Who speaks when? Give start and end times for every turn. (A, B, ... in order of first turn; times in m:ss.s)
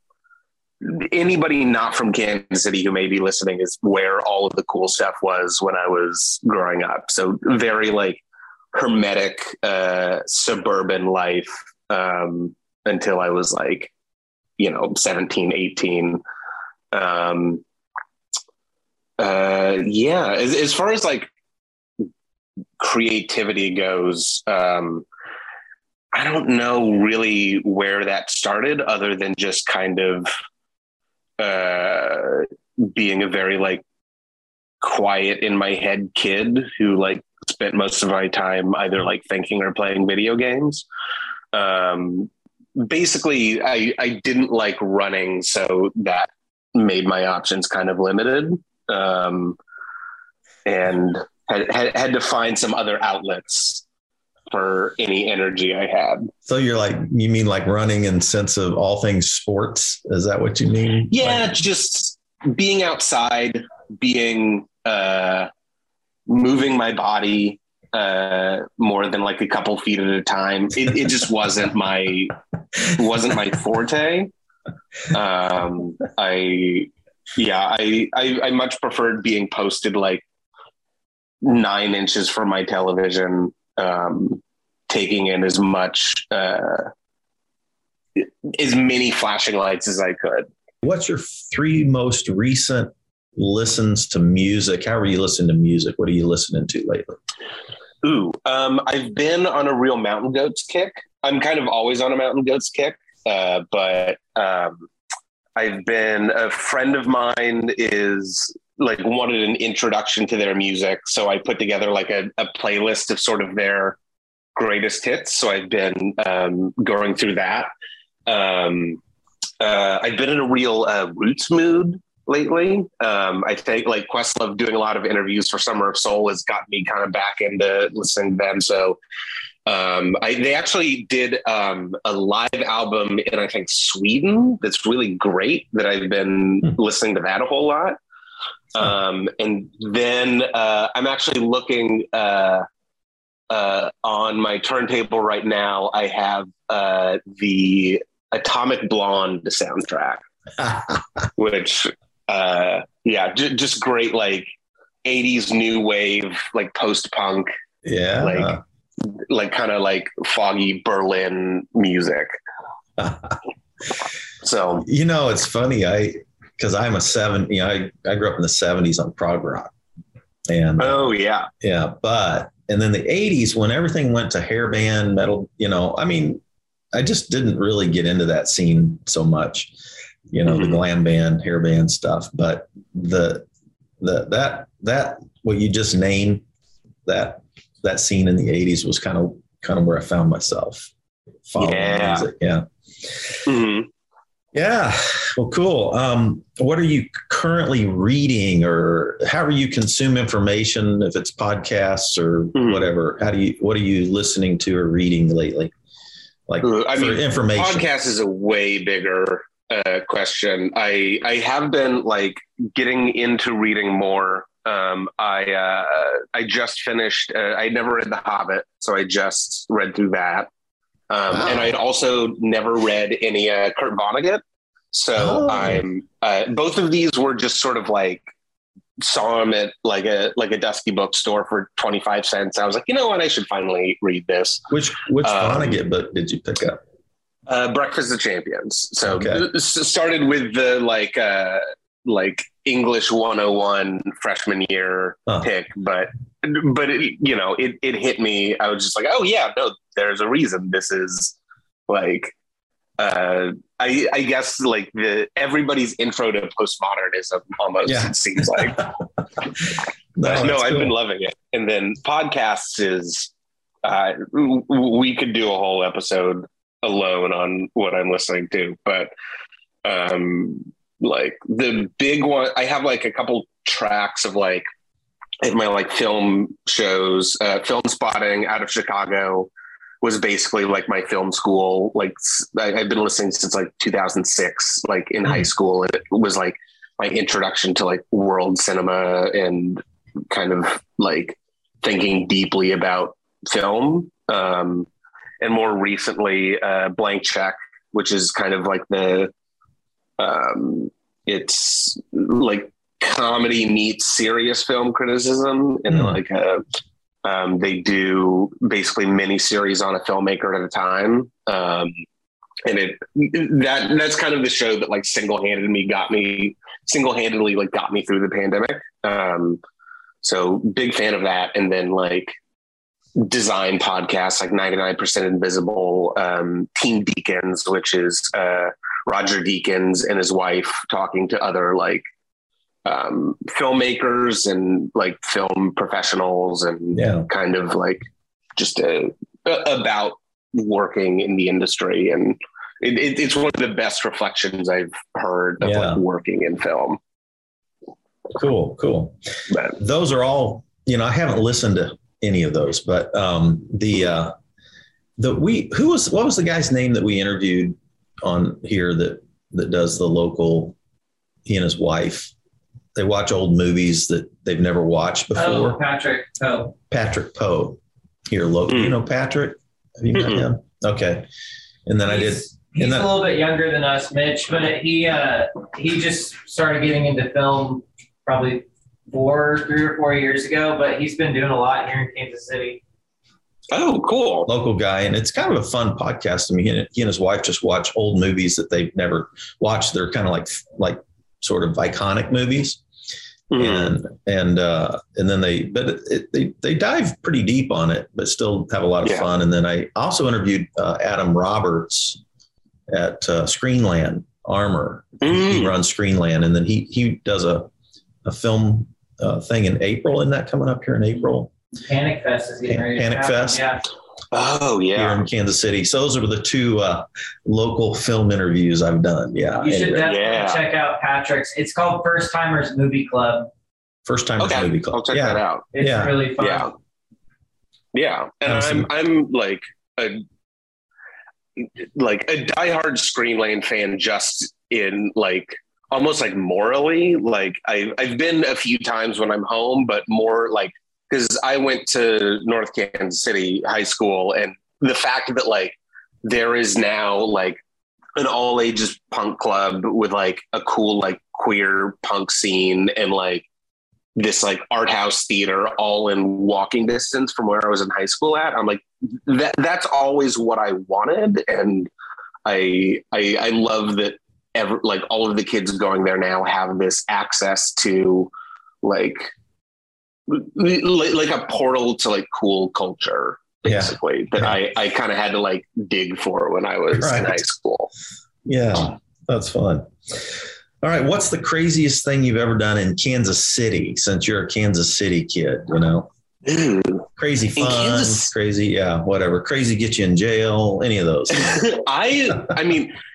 0:00.8-0:08.2 A
0:08.7-0:13.9 A
0:14.6-0:16.2 A
0:16.9-0:17.6 A
0:19.2-0:21.3 A
0:22.8-0:25.0 A
0:26.1-0:30.3 A
0:31.4-0:33.8 A
0:34.8-0:40.8 A
0:41.5-0:49.6 A
0:50.6-0:53.8 A
0:54.5-0:56.3 A
0:56.4-1:01.5 B
1:01.1-1:05.5 A
1:06.3-1:14.3 A
1:15.1-1:20.2 A
1:21.4-1:26.9 A
1:28.2-1:30.5 A
1:30.8-1:37.2 B
1:38.0-1:44.9 A
1:45.6-1:54.0 A
1:54.5-1:57.7 A
1:58.3-1:59.0 A
1:59.6-2:09.0 A
2:09.6-2:18.0 A
2:18.7-2:22.6 A
2:23.5-2:30.2 A
2:30.6-2:31.3 B
2:31.4-2:34.5 A
2:35.0-2:37.5 A
2:37.8-2:38.6 B
2:38.2-2:42.3 A
2:43.0-2:43.4 B
2:44.4-2:44.9 A
2:44.8-2:49.7 B
2:50.5-2:51.1 B
2:50.8-2:51.5 A
2:51.6-2:56.4 B
2:56.9-2:59.7 B
3:00.3-3:03.4 B
3:00.4-3:00.8 A
3:04.0-3:06.4 B
3:07.0-3:10.9 B
3:11.5-3:13.4 B
3:11.6-3:12.3 A
3:13.4-3:13.9 A
3:14.5-3:25.7 B
3:22.5-3:22.8 A
3:26.5-3:27.9 B
3:26.6-3:40.5 A
3:41.1-3:48.3 A
3:41.3-3:41.7 B
3:45.2-3:45.8 B
3:49.0-3:54.7 A
3:54.7-3:56.8 B
3:55.2-3:55.8 A
3:57.5-4:11.3 A
3:59.0-3:59.4 B
4:11.9-4:12.3 A
4:13.0-4:18.9 A
4:17.8-4:18.9 B
4:20.2-4:20.9 B
4:20.2-4:23.3 A
4:23.8-4:29.1 A
4:29.8-4:34.6 A
4:35.4-4:39.5 A
4:40.0-4:54.9 A
4:55.4-4:59.3 A
5:00.2-5:06.6 A
5:05.9-5:06.2 B
5:07.2-5:12.0 A
5:12.6-5:19.6 A
5:20.2-5:22.3 A
5:23.2-5:32.0 A
5:32.8-5:38.0 A
5:36.9-5:37.3 B
5:38.6-5:47.0 A
5:45.6-5:46.0 B
5:48.3-5:49.2 B
5:49.5-5:49.7 A
5:49.7-5:54.3 B
5:55.2-6:00.8 B
6:01.4-6:02.3 B
6:02.9-6:05.8 B
6:05.3-6:06.7 C
6:06.9-6:11.3 B
6:08.7-6:08.9 A
6:10.1-6:10.4 A
6:11.8-6:13.1 B
6:12.1-6:22.8 C
6:23.7-6:24.5 A
6:24.5-6:32.8 B
6:33.5-6:33.9 A
6:33.6-6:42.2 B
6:42.9-6:47.7 B
6:45.2-6:45.7 A
6:48.2-6:51.5 B
6:51.8-6:53.8 C
6:52.7-6:53.6 B
6:54.3-6:55.2 A
6:54.9-7:00.1 B
6:59.6-7:03.5 C
7:00.0-7:00.6 A
7:04.0-7:06.2 B
7:04.4-7:05.7 A
7:05.7-7:06.7 C
7:06.4-7:06.7 A
7:07.9-7:10.2 A
7:08.4-7:08.9 B
7:11.6-7:27.6 A
7:28.2-7:33.5 A
7:34.2-7:41.9 A
7:42.4-7:48.3 A
7:48.8-7:49.3 A
7:50.3-7:57.9 A
7:53.6-7:54.6 B
7:57.0-7:57.5 B
7:58.4-8:06.1 B
8:06.4-8:08.3 A
8:07.2-8:11.6 B
8:11.3-8:12.9 A